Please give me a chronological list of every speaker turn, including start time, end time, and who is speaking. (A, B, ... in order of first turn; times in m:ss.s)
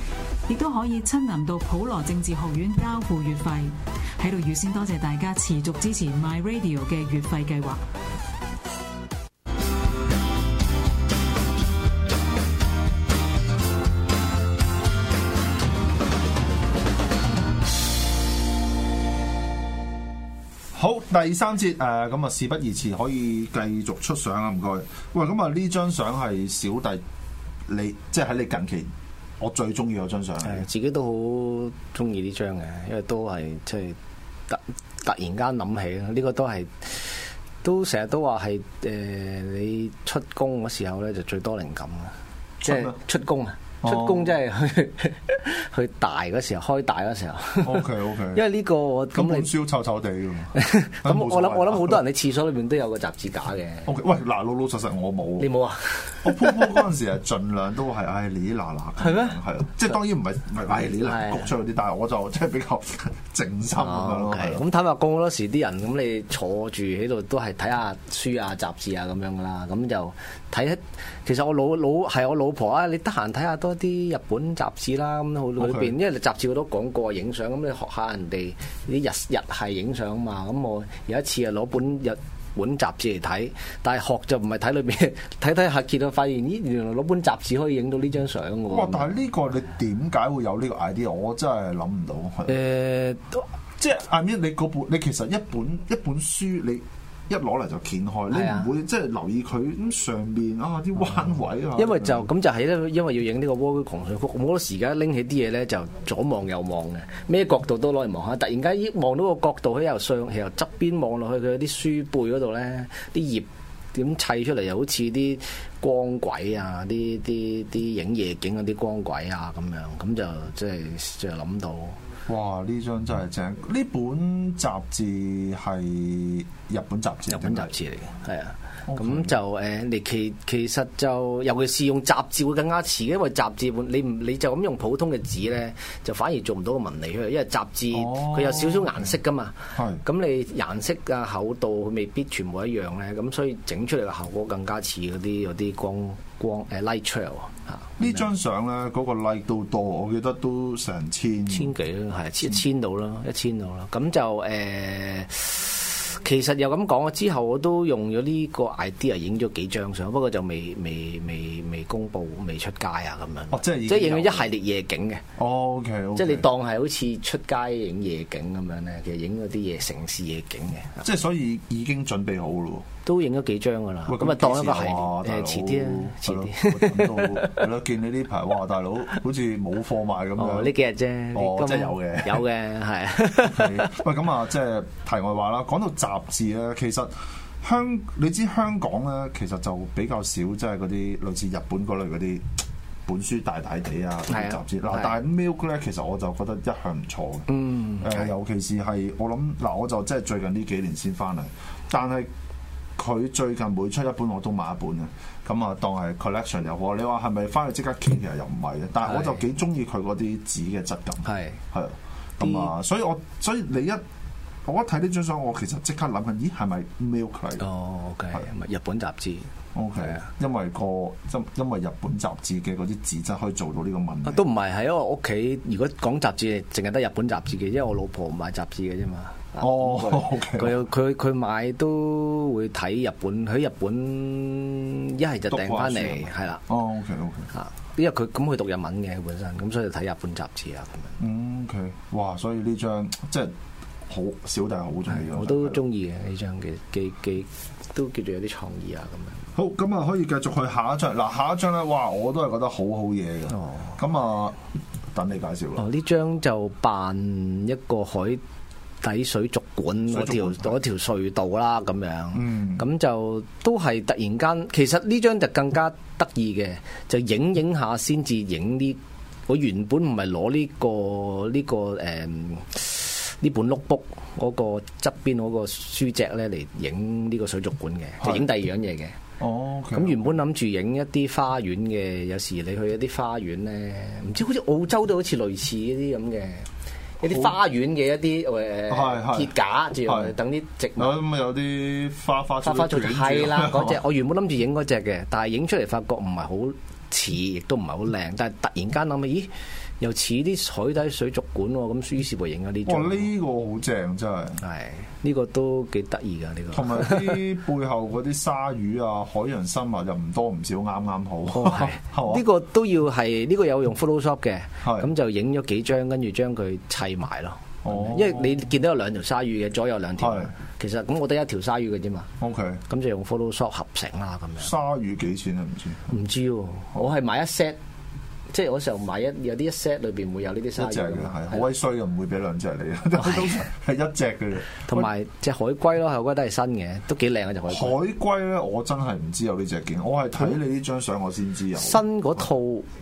0:00.5-0:07.8 A
0:20.7-0:27.0 B
0:27.7-0:30.7 B
0:30.4-0:34.0 C
0:34.5-0:49.5 C
0:42.6-0:43.0 B
0:43.8-0:44.4 B
0:47.6-0:48.4 B
0:49.1-0:52.0 B
0:50.5-0:53.9 C
0:53.8-0:55.5 B
0:55.4-0:56.8 C
0:56.2-1:04.6 B
0:59.0-0:59.4 C
1:01.0-1:01.5 C
1:03.8-1:29.1 C
1:15.6-1:15.9 B
1:28.7-1:32.6 B
1:32.5-1:33.5 C
1:33.8-1:42.3 B
1:38.3-1:38.7 C
1:41.7-2:02.0 C
2:02.3-2:07.7 B
2:07.3-2:28.3 C
2:08.8-2:09.4 B
2:17.9-2:19.1 B
2:19.7-2:20.0 B
2:28.0-2:31.7 B
2:31.5-2:45.2 C
2:43.5-2:44.5 B
2:45.4-2:46.5 B
2:46.2-2:51.1 C
2:51.0-2:52.8 B
2:53.0-2:57.7 C
2:54.0-3:00.7 B
3:00.4-3:03.9 C
3:01.3-3:02.4 B
3:03.4-3:12.5 B
3:13.0-3:22.3 B
3:14.3-3:15.2 C
3:17.5-3:18.3 C
3:23.0-3:34.0 B
3:29.0-3:29.4 C
3:31.2-3:31.6 C
3:32.4-3:32.7 C
3:34.6-3:37.6 B
3:37.6-3:40.2 C
3:39.7-3:44.4 B
3:44.2-3:56.6 C
3:49.6-3:50.8 B
3:55.5-3:57.5 B
3:57.5-4:01.2 C
4:01.2-4:03.5 B
4:04.1-4:05.8 B
4:05.1-4:09.5 C
4:09.5-4:14.6 B
4:13.5-4:14.0 C
4:15.1-4:15.8 B
4:15.8-4:18.4 C
4:19.0-4:39.2 C
4:20.1-4:20.8 B
4:22.3-4:22.8 B
4:38.2-4:38.5 B
4:39.4-4:40.4 B
4:39.9-4:46.7 C
4:47.2-4:51.1 C
4:47.2-4:47.6 B
4:48.9-4:50.3 B
4:51.0-4:54.0 B
4:52.6-5:03.3 C
5:02.8-5:04.6 B
5:04.6-5:07.4 C
5:06.7-5:12.4 B
5:11.5-5:22.3 C
5:14.8-5:15.1 B
5:17.8-5:18.7 B
5:20.2-5:20.5 B
5:22.4-5:22.8 B
5:22.8-5:24.7 C
5:24.6-5:26.1 B
5:26.1-5:27.8 C
5:28.5-5:31.7 C
5:30.8-5:35.1 B
5:33.2-5:33.6 C
5:34.9-5:38.0 C
5:37.7-5:42.4 B
5:41.8-5:42.8 C